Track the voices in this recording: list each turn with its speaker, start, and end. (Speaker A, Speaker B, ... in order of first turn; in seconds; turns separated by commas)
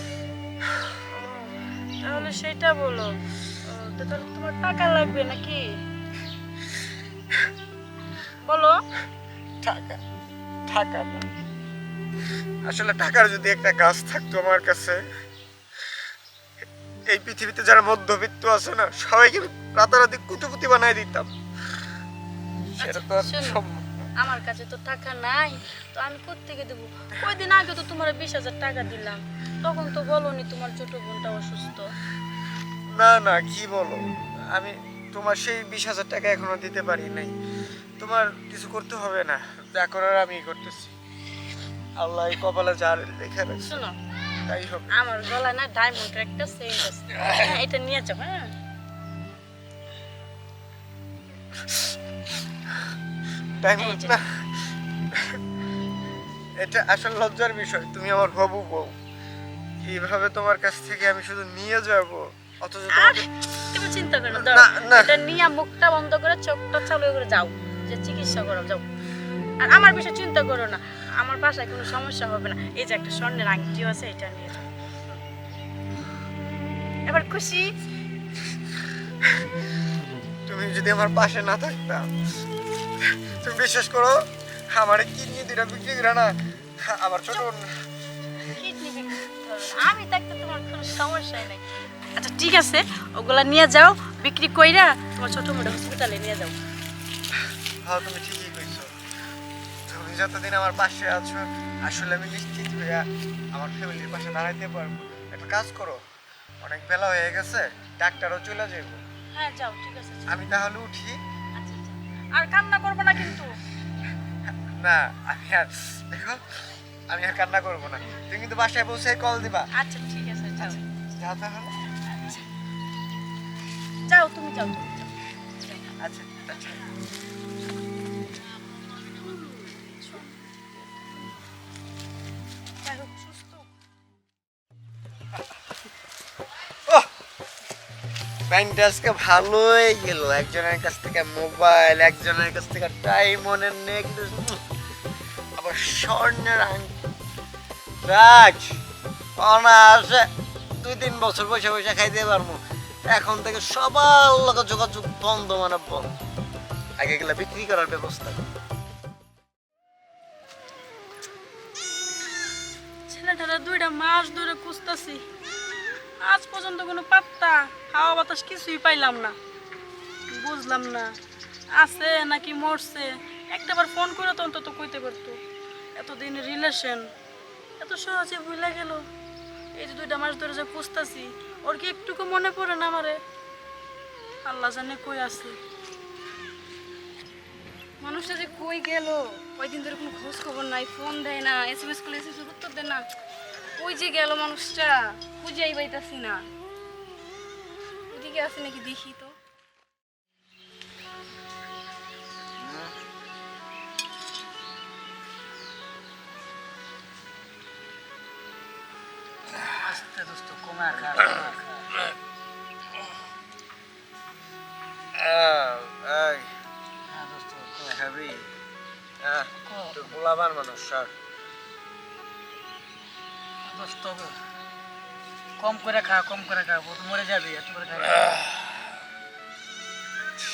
Speaker A: 0.6-0.9, Speaker B: 1.1-5.7, Speaker B: 8.4-8.8, Speaker A: 9.6-10.0, Speaker A: 10.7-11.3, Speaker A: 12.7-15.0, Speaker A: 17.1-21.3, Speaker A: 22.8-24.1, Speaker B: 22.8-23.6, Speaker B: 24.2-31.9, Speaker A: 32.9-37.3, Speaker A: 38.0-41.0, Speaker A: 42.0-43.8, Speaker B: 43.6-44.0, Speaker A: 44.5-44.9, Speaker B: 44.9-48.5, Speaker A: 47.2-47.6, Speaker A: 51.5-51.9, Speaker A: 53.6-54.5, Speaker B: 53.8-54.1, Speaker A: 55.1-55.4, Speaker A: 56.6-59.0, Speaker A: 59.8-63.3, Speaker B: 62.9-68.8, Speaker A: 64.3-65.2, Speaker B: 69.6-74.7, Speaker B: 77.1-77.7, Speaker A: 80.5-82.1, Speaker A: 83.0-87.7, Speaker B: 88.6-91.6, Speaker B: 92.2-96.5, Speaker A: 97.4-98.9, Speaker A: 99.9-106.0, Speaker A: 106.6-109.0, Speaker B: 109.3-110.4, Speaker A: 110.3-111.2, Speaker B: 111.5-113.5, Speaker A: 114.5-116.5, Speaker A: 117.1-119.7, Speaker B: 119.8-120.8, Speaker A: 120.6-121.8, Speaker B: 124.1-125.1, Speaker A: 126.0-126.9, Speaker B: 129.1-130.4, Speaker B: 132.8-133.7, Speaker A: 138.5-144.6, Speaker A: 145.6-146.9, Speaker A: 148.0-148.7, Speaker A: 149.4-150.3, Speaker A: 150.8-156.1, Speaker A: 157.0-158.4, Speaker B: 163.1-165.2, Speaker B: 166.2-169.3, Speaker B: 170.3-171.2, Speaker B: 171.7-175.4, Speaker B: 175.9-177.1, Speaker B: 177.8-179.1, Speaker B: 179.8-183.2, Speaker B: 184.4-185.6, Speaker C: 188.0-193.1, Speaker C: 193.8-196.4, Speaker C: 198.1-199.3, Speaker A: 202.6-202.9, Speaker D: 209.8-211.9, Speaker A: 215.1-216.5, Speaker D: 217.1-218.0, Speaker A: 217.9-218.5, Speaker A: 219.2-221.1, Speaker D: 219.7-220.1, Speaker D: 223.6-224.3, Speaker D: 225.6-228.4